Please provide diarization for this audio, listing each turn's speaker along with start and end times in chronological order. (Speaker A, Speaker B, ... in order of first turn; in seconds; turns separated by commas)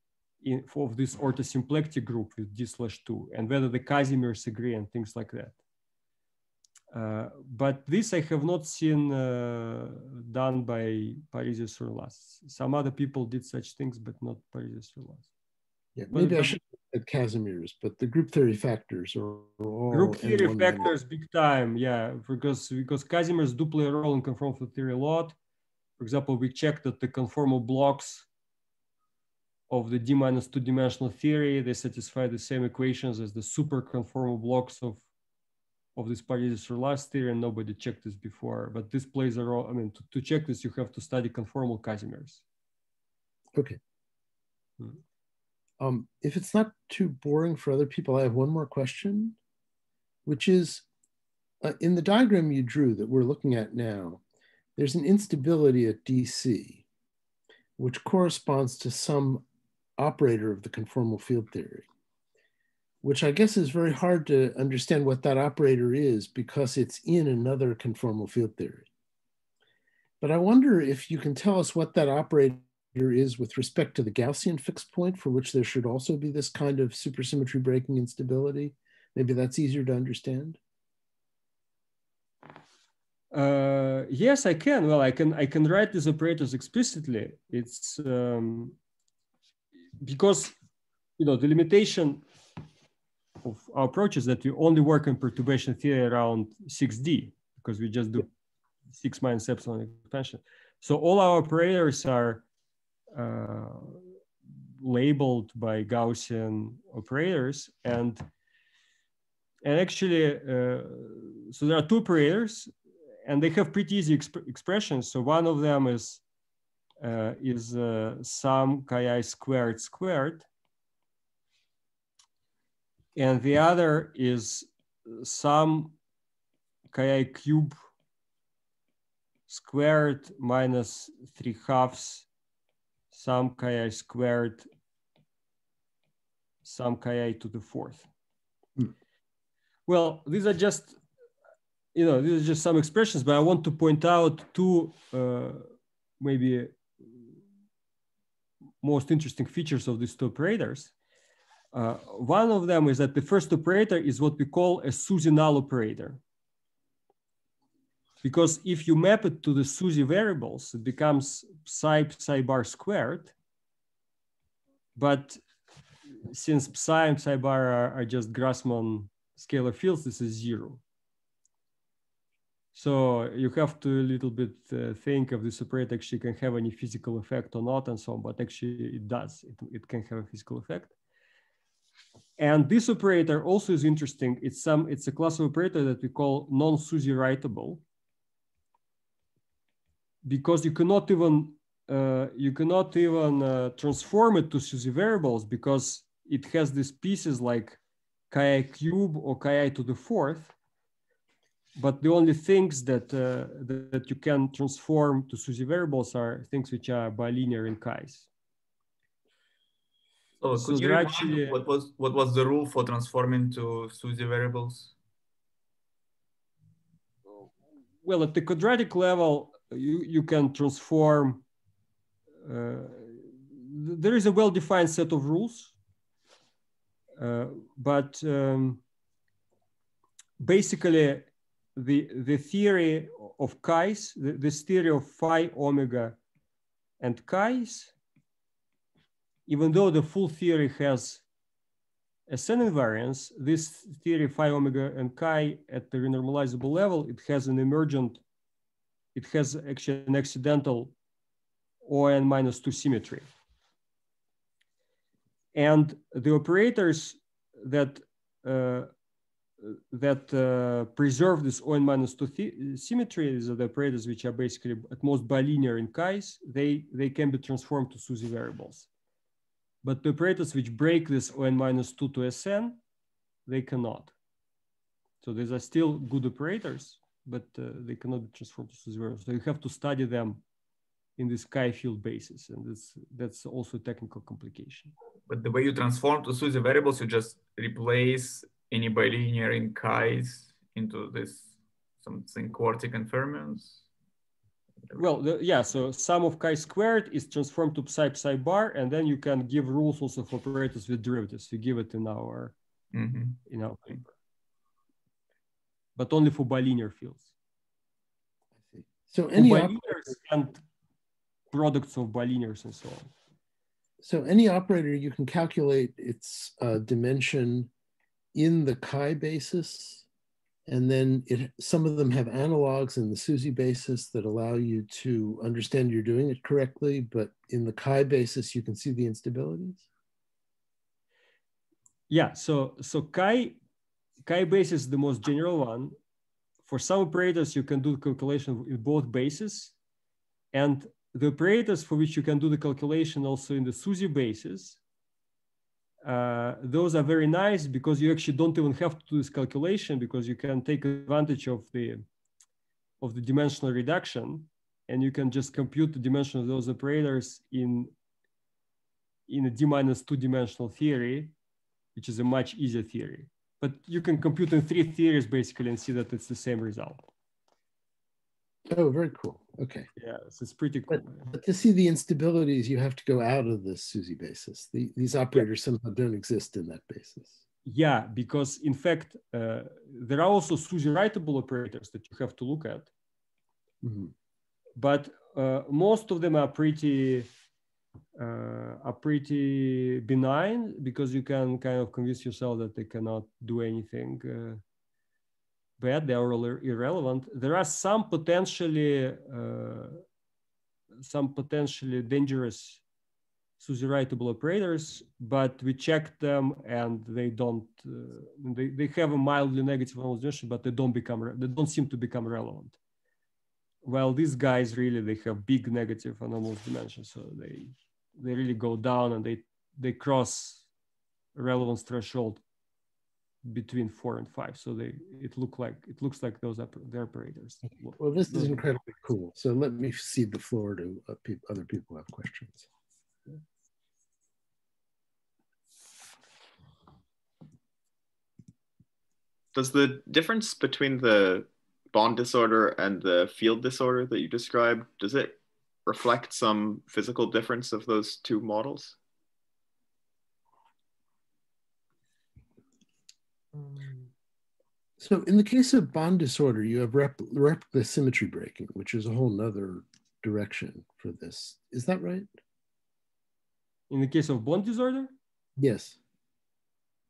Speaker A: 0.4-5.6, Speaker A: 6.9-15.3, Speaker B: 15.9-20.9, Speaker A: 16.1-16.6, Speaker A: 19.9-25.4, Speaker A: 26.0-28.3, Speaker A: 29.7-35.0, Speaker A: 36.0-42.4, Speaker B: 45.8-49.4, Speaker B: 50.2-50.8, Speaker B: 51.6-54.2, Speaker B: 54.8-56.8, Speaker B: 57.8-59.4, Speaker B: 60.0-61.9, Speaker B: 63.0-68.9, Speaker B: 70.2-80.6, Speaker A: 83.3-88.8, Speaker A: 90.0-90.5, Speaker A: 91.2-92.2, Speaker A: 93.4-98.2, Speaker A: 98.9-102.4, Speaker A: 103.1-104.0, Speaker A: 104.8-108.2, Speaker A: 109.6-112.7, Speaker A: 113.2-116.2, Speaker A: 117.0-120.5, Speaker A: 123.2-125.9, Speaker A: 126.9-127.8, Speaker A: 129.5-132.2, Speaker A: 133.1-134.7, Speaker A: 136.6-138.1, Speaker A: 139.9-141.0, Speaker A: 141.9-147.3, Speaker A: 148.8-150.9, Speaker A: 151.7-156.2, Speaker A: 158.2-163.3, Speaker A: 164.9-165.4, Speaker A: 166.2-170.8, Speaker A: 172.7-180.9, Speaker A: 182.4-187.8, Speaker A: 190.2-197.8, Speaker A: 198.3-200.5, Speaker A: 201.8-208.3, Speaker C: 210.4-214.9, Speaker A: 210.5-211.6, Speaker A: 218.0-221.4, Speaker A: 222.4-225.7, Speaker A: 227.2-228.8, Speaker A: 230.4-236.2, Speaker A: 237.0-237.9, Speaker A: 239.5-241.2, Speaker A: 242.3-248.2, Speaker A: 249.1-250.9, Speaker A: 251.8-253.3, Speaker A: 255.5-258.9, Speaker A: 259.6-268.9, Speaker A: 269.8-272.8, Speaker A: 273.5-274.1, Speaker A: 275.2-280.4, Speaker A: 281.2-284.9, Speaker C: 285.3-293.8, Speaker A: 294.9-302.5, Speaker C: 302.9-304.0, Speaker A: 303.5-304.1, Speaker A: 306.0-307.3, Speaker B: 308.7-310.1, Speaker A: 309.4-310.6, Speaker A: 311.5-313.1, Speaker B: 314.0-317.7, Speaker B: 318.3-320.0, Speaker B: 320.7-329.9, Speaker A: 332.1-333.6, Speaker A: 334.2-335.9, Speaker A: 336.6-339.7, Speaker A: 340.5-344.8, Speaker A: 346.0-352.0, Speaker A: 353.0-357.9, Speaker A: 359.3-361.3, Speaker A: 361.9-367.1, Speaker B: 368.7-369.9, Speaker A: 370.0-371.3, Speaker B: 371.3-377.4, Speaker A: 377.6-382.9, Speaker B: 383.8-384.1, Speaker A: 384.8-387.3, Speaker A: 388.2-394.6, Speaker A: 395.8-400.0, Speaker A: 401.0-402.8, Speaker A: 403.6-412.8, Speaker A: 413.8-420.6, Speaker A: 421.3-422.4, Speaker A: 423.4-428.6, Speaker B: 428.0-432.6, Speaker D: 439.5-448.9, Speaker B: 455.0-462.3, Speaker A: 463.9-465.1, Speaker B: 465.6-466.0